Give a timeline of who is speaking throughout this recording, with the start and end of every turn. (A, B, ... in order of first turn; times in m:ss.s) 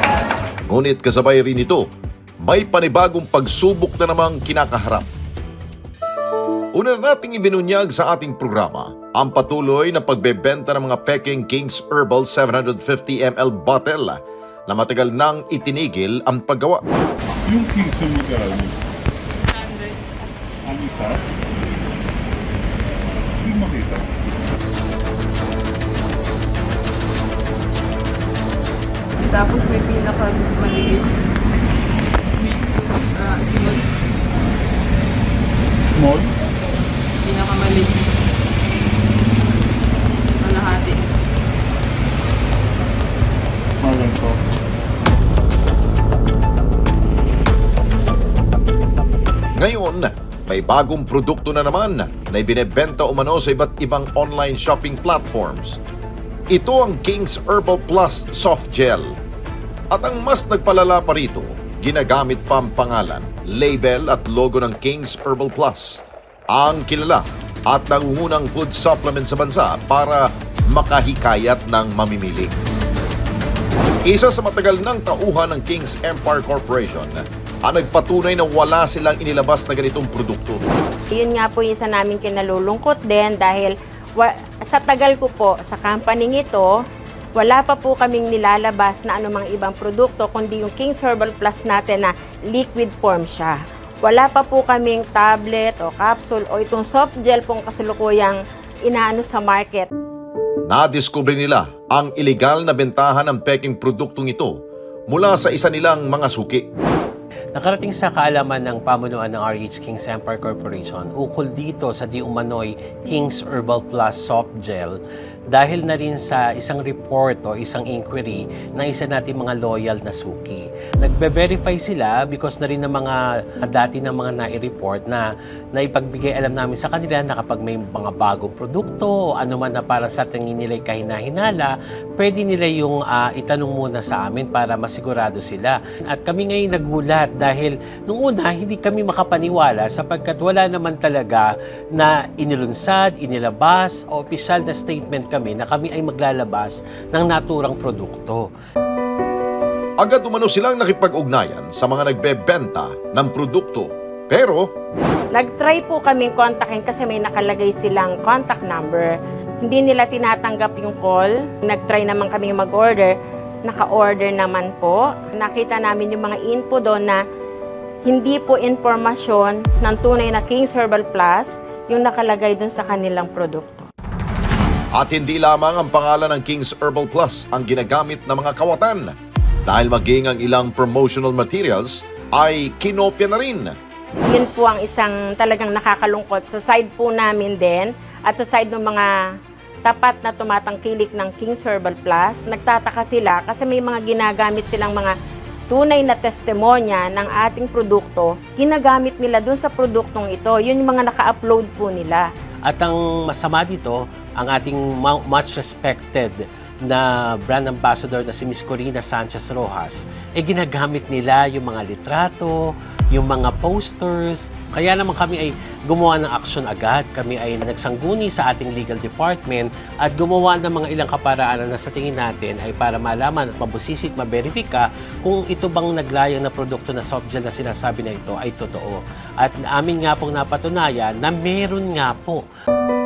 0:00.7-0:01.8 A
0:02.4-0:05.1 A
0:06.7-0:16.8 A
0:17.4-0:18.8 B
0:19.5-0:19.9 C
0:20.6-0:21.3 B
0:23.4-0:24.5 B
0:29.2-0:31.2 C
0:32.3-0:33.8 C
0:35.9-0:36.3 B
0:37.2-0:38.1 C
0:40.4-0:41.0 C
0:43.8-0:44.4 B
0:49.6-0:55.8 A
0:56.5-0:59.2 A
0:59.9-1:10.2 A
1:10.7-1:12.5 A
1:14.1-1:20.6 A
1:21.1-1:26.7 D
1:27.3-1:39.9 D
1:40.7-1:44.5 A
1:45.1-1:46.6 A
1:47.5-1:55.0 E
1:55.5-2:28.5 E
2:30.0-2:34.6 A
2:35.3-2:47.2 D
2:48.0-2:53.9 D
2:55.0-2:59.1 A
2:59.7-3:03.7 A
3:04.2-3:09.1 D
3:09.8-3:15.2 D
3:15.7-3:22.3 D
3:22.7-3:52.4 E